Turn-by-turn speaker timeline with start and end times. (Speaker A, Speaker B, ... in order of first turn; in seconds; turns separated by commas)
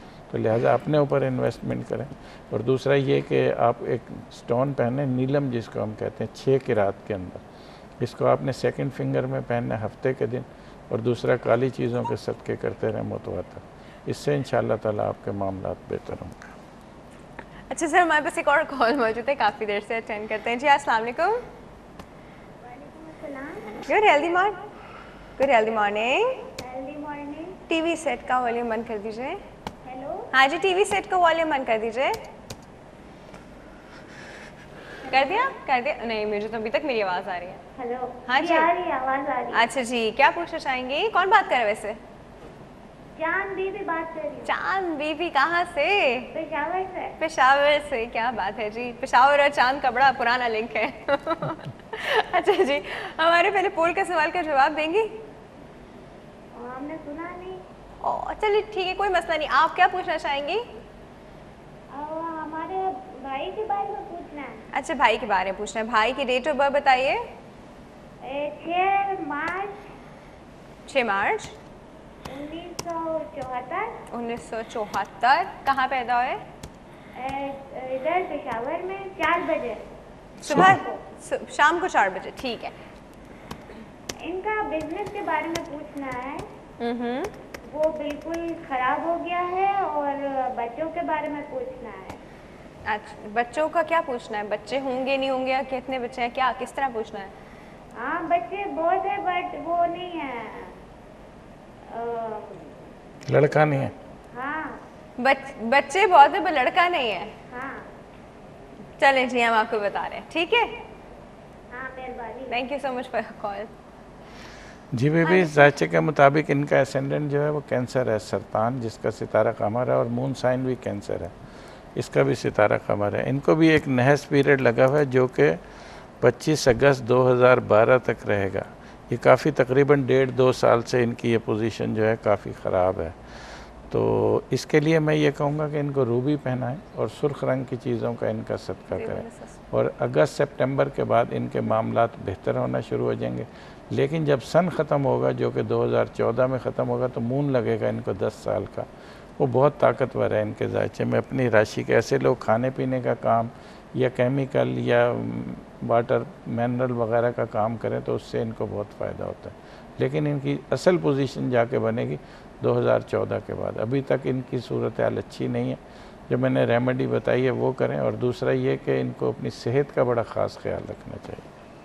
Speaker A: 0.3-7.4, Speaker A: 8.0-16.6, Speaker B: 17.7-21.4, Speaker C: 22.6-24.7, Speaker B: 23.9-24.6, Speaker B: 25.4-26.3, Speaker C: 25.5-27.6, Speaker B: 27.7-29.4, Speaker C: 29.8-30.3, Speaker B: 30.3-32.2, Speaker B: 35.0-37.6, Speaker C: 37.7-39.7, Speaker B: 38.2-38.7, Speaker B: 39.5-42.0, Speaker C: 43.1-44.5, Speaker B: 44.5-46.3, Speaker C: 46.3-47.1, Speaker B: 47.2-55.1, Speaker C: 56.5-57.6, Speaker B: 58.0-60.6, Speaker C: 61.9-64.6, Speaker B: 64.7-67.2, Speaker C: 68.2-69.9, Speaker B: 70.9-71.5, Speaker C: 72.3-74.0, Speaker B: 74.1-76.4, Speaker C: 77.1-79.8, Speaker B: 80.4-82.7, Speaker C: 80.5-81.0, Speaker A: 80.5-80.8, Speaker C: 84.2-86.5, Speaker B: 86.8-87.3, Speaker C: 87.7-92.2, Speaker B: 92.9-97.3, Speaker C: 97.9-100.8, Speaker C: 101.9-102.8, Speaker A: 103.2-103.9, Speaker C: 104.3-104.8, Speaker B: 105.2-107.3, Speaker C: 107.5-107.9, Speaker B: 109.0-110.7, Speaker C: 111.7-112.6, Speaker B: 112.5-113.7, Speaker A: 114.9-121.3, Speaker B: 115.2-115.7, Speaker A: 121.9-125.6, Speaker A: 126.2-171.5, Speaker B: 138.9-139.6